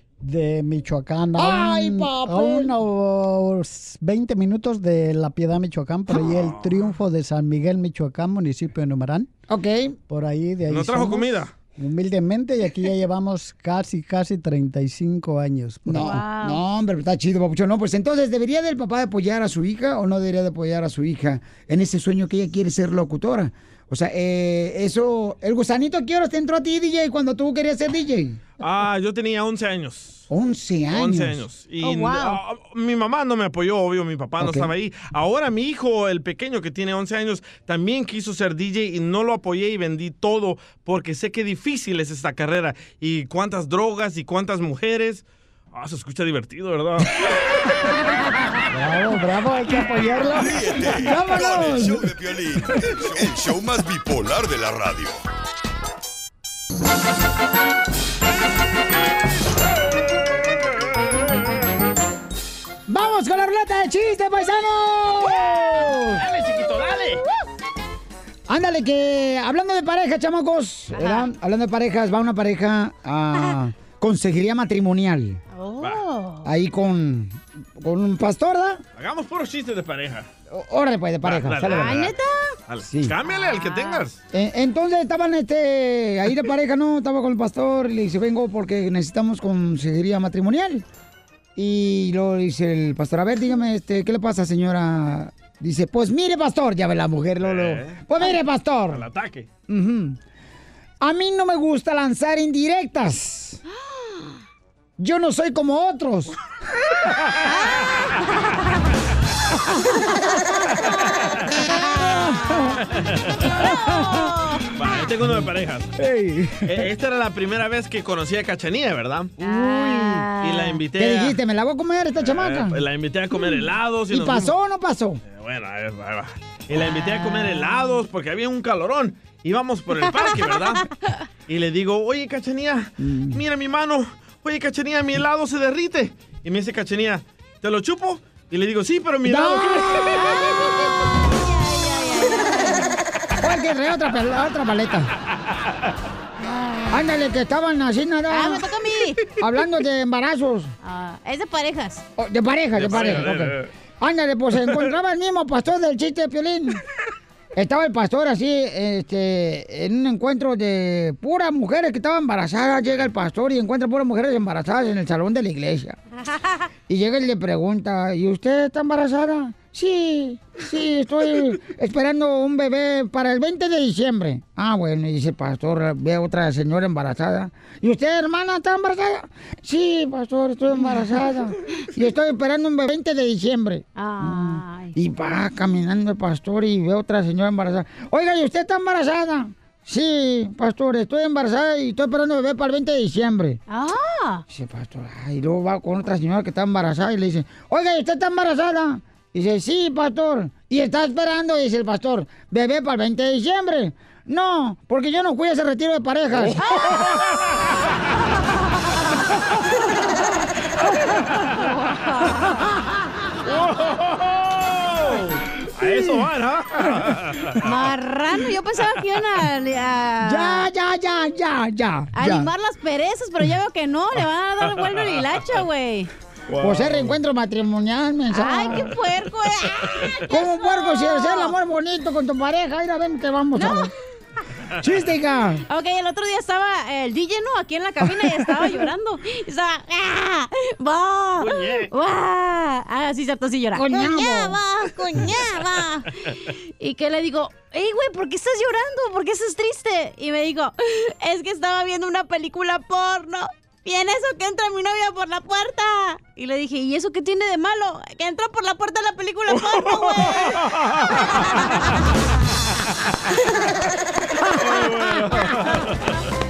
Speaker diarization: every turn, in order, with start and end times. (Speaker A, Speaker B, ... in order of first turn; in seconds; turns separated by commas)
Speaker A: 0.2-9.3, Speaker B: 1.4-2.7, Speaker C: 6.3-6.9, Speaker B: 9.5-10.0, Speaker A: 10.1-16.2, Speaker C: 10.7-11.5, Speaker B: 15.9-28.4, Speaker D: 15.9-16.6, Speaker C: 28.6-30.3, Speaker B: 30.3-31.4, Speaker C: 30.9-47.1, Speaker D: 31.8-32.4, Speaker B: 34.4-34.7, Speaker A: 48.7-50.6, Speaker B: 49.2-49.5, Speaker E: 50.3-55.2, Speaker B: 50.8-52.1, Speaker B: 62.9-66.2, Speaker C: 66.2-67.2, Speaker B: 68.5-75.4, Speaker D: 70.9-71.3, Speaker D: 75.5-76.5, Speaker B: 76.5-78.8, Speaker C: 79.0-80.3, Speaker B: 80.5-82.1, Speaker C: 81.2-82.1, Speaker D: 81.6-82.5, Speaker C: 82.7-84.2, Speaker B: 82.9-83.1, Speaker D: 83.2-84.1, Speaker B: 84.3-90.8, Speaker B: 91.5-99.0, Speaker C: 97.4-98.0, Speaker C: 98.9-99.5, Speaker B: 99.7-100.2, Speaker B: 101.0-103.6, Speaker B: 105.0-106.4, Speaker D: 107.5-107.8, Speaker B: 112.0-112.5, Speaker C: 112.9-113.6, Speaker D: 113.4-114.7, Speaker C: 114.7-115.9, Speaker B: 116.0-116.9, Speaker C: 116.6-119.3, Speaker D: 119.4-120.8, Speaker B: 119.4-120.3, Speaker C: 120.4-121.4, Speaker B: 121.0-122.8, Speaker C: 122.2-124.5, Speaker B: 124.1-125.2, Speaker C: 125.2-130.9, Speaker D: 126.8-128.0, Speaker D: 130.0-130.4, Speaker C: 131.5-140.3, Speaker B: 133.0-133.4, Speaker B: 139.2-139.9, Speaker D: 140.0-142.9, Speaker B: 143.4-145.1, Speaker B: 146.9-148.7, Speaker D: 148.3-149.2, Speaker B: 149.4-150.7, Speaker D: 150.8-152.0, Speaker B: 152.2-156.8, Speaker C: 152.8-153.7, Speaker B: 157.5-165.9, Speaker B: 166.9-193.6, Speaker D: 183.9-184.9, Speaker D: 193.7-194.4, Speaker B: 194.5-206.6, Speaker D: 206.6-207.0, Speaker D: 211.6-212.6, Speaker C: 213.4-217.6, Speaker D: 217.6-220.7, Speaker B: 220.2-222.5, Speaker D: 222.1-226.1, Speaker C: 224.6-225.4, Speaker C: 226.5-227.2, Speaker B: 226.6-228.9, Speaker D: 228.3-231.6, Speaker B: 230.3-233.9, Speaker D: 233.6-233.9, Speaker B: 234.8-235.6, Speaker D: 235.7-246.1, Speaker C: 241.4-241.9, Speaker B: 243.7-244.6, Speaker D: 246.8-260.6, Speaker C: 259.5-261.2, Speaker D: 261.3-261.7, Speaker C: 264.6-265.9